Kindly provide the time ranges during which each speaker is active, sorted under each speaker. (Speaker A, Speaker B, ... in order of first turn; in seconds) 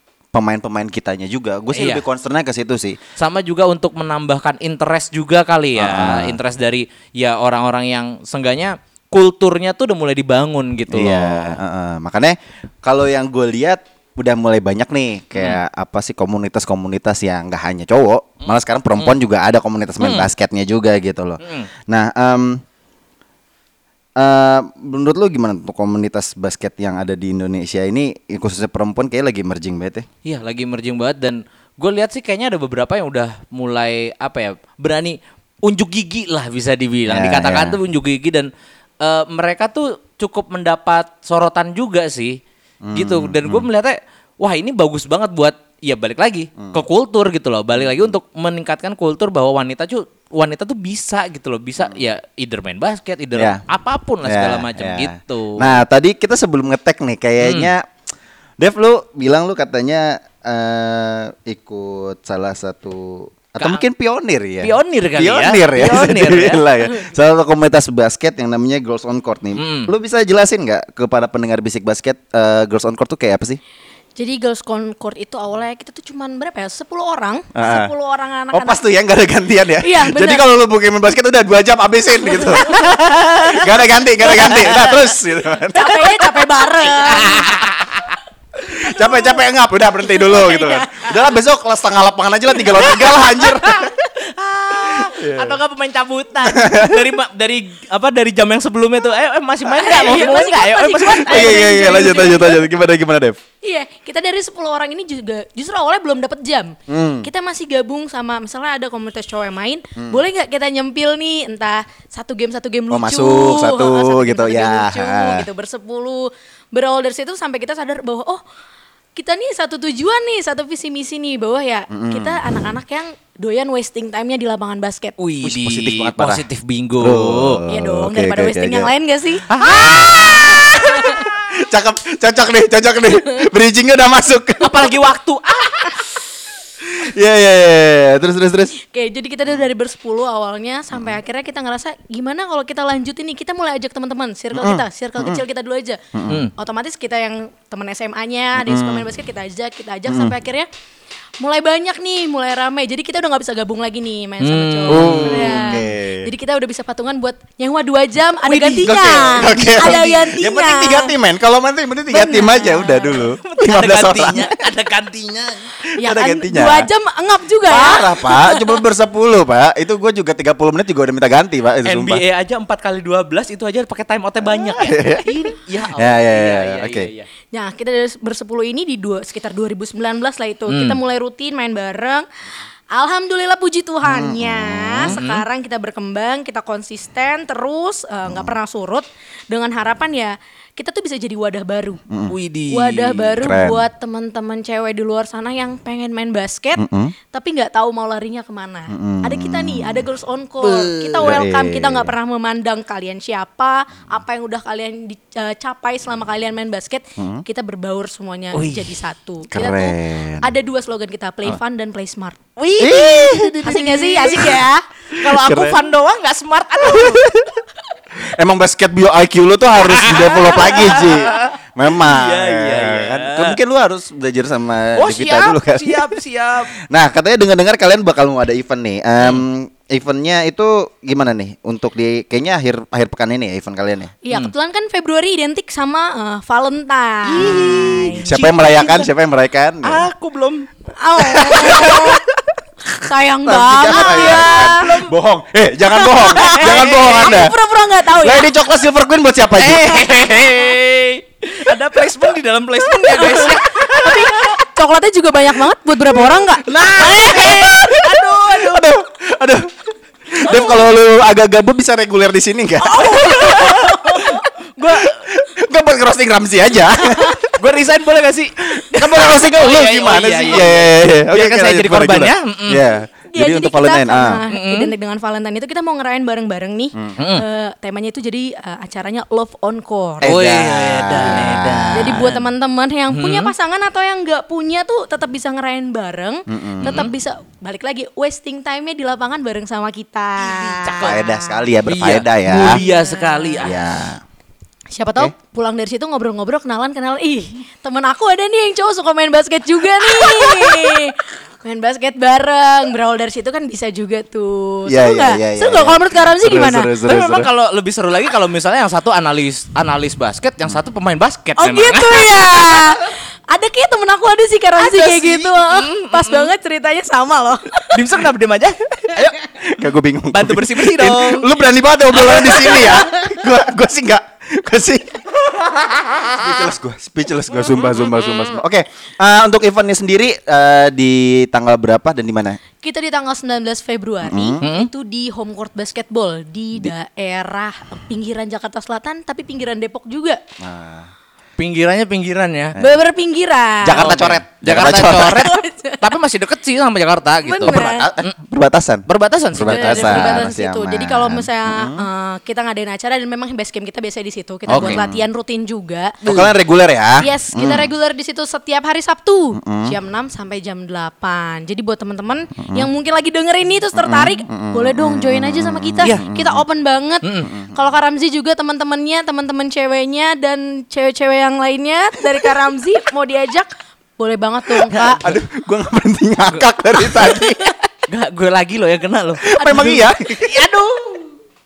Speaker A: 0.3-3.0, 5.8-6.4, 10.9-22.6, 24.2-30.1, 37.1-37.8, 42.8-43.7, 53.4-53.6, 54.2-57.9, 58.6-73.6, 77.5-77.9, 78.5-86.1, 88.6-93.9, 94.9-95.6, 96.4-97.0, 101.2-103.4, 106.9-107.3, 110.0-110.2, 112.9-115.5, 121.9-122.4, 125.4-126.4, 127.0-128.9, 129.6-134.9, 136.8-138.8, 144.5-145.4, 146.1-146.4, 148.6-149.1, 150.1-150.3, 154.9-156.3, 158.8-164.6, 165.9-166.9, 167.6-172.2, 174.4-175.3, 175.9-177.1, 184.0-185.2, 188.3-188.5, 192.1-192.3, 193.4-193.8, 196.8-197.1, 198.9-200.0, 201.2-202.1, 207.2-207.4, 209.5-210.5, 212.8-213.7, 215.1-215.8, 216.8-217.6, 218.2-226.2, 226.8-234.1, 237.4-240.1, 241.5-241.9, 243.4-247.5, 248.2-250.4, 256.7-259.7, 260.3-263.7, 265.0-267.5, 268.7-274.4, 280.2-282.3, 286.5-287.0, 291.0-292.8, 293.6-294.2, 304.9-307.5, 319.1-332.6, 334.2-334.6, 340.6-341.1, 343.8-345.5, 347.6-352.0, 354.7-355.2, 356.2-357.9, 359.6-359.9, 362.6-362.9, 363.9-366.6, 375.2-377.7, 379.5-380.5
Speaker B: 1.7-2.0, 3.2-11.6, 20.0-20.3, 21.4-21.7, 30.2-38.5, 39.0-42.4, 42.9-55.7, 57.4-57.7, 64.6-66.7, 69.5-69.9, 82.6-83.7, 84.3-85.0, 86.8-88.1, 92.8-102.3, 125.2-127.6, 129.5-130.7, 134.6-136.1, 154.4-155.6, 158.4-160.3, 163.4-165.7, 171.8-177.3, 180.7-181.0, 185.0-185.4, 192.3-193.3, 200.6-201.3, 208.5-209.0, 212.6-217.3, 219.8-223.6, 224.9-226.7, 237.3-239.1, 239.8-240.7, 241.3-242.1, 243.9-245.1, 246.3-247.4, 249.6-254.6, 256.7-258.9, 260.5-260.8, 262.8-265.2, 267.5-272.9, 274.5-274.9, 277.2-277.4, 280.2-282.4, 283.1-283.5, 286.8-287.1, 290.4-291.3, 291.9-293.8, 300.2-300.9, 307.0-312.9, 314.8-316.5, 317.9-318.8, 320.3-321.5, 322.1-323.0, 327.9-328.3, 334.6-334.9, 341.6-342.8, 343.9-348.3, 349.1-350.4, 354.7-355.0, 356.2-356.5, 367.2-367.5, 377.1-377.4, 378.1-381.3
Speaker C: 74.2-78.8, 79.8-80.4, 85.7-87.5, 90.2-91.1, 99.7-102.6, 103.6-118.4, 119.2-125.1, 127.7-129.5, 130.7-131.2, 138.8-146.0, 146.6-150.7, 151.4-161.1, 162.1-163.3, 166.0-168.7, 177.5-182.2, 182.9-192.0, 192.7-212.4, 213.6-214.8, 234.2-238.5, 241.0-242.2, 242.9-244.8, 245.9-248.5, 253.1-257.7, 263.0-264.5, 273.3-280.3, 281.9-291.5, 292.7-293.7, 294.9-306.9, 311.6-317.9, 332.8-340.4, 342.8-344.2, 345.3-346.0, 347.4-348.1, 349.6-356.1, 357.2-375.3, 379.6-380.1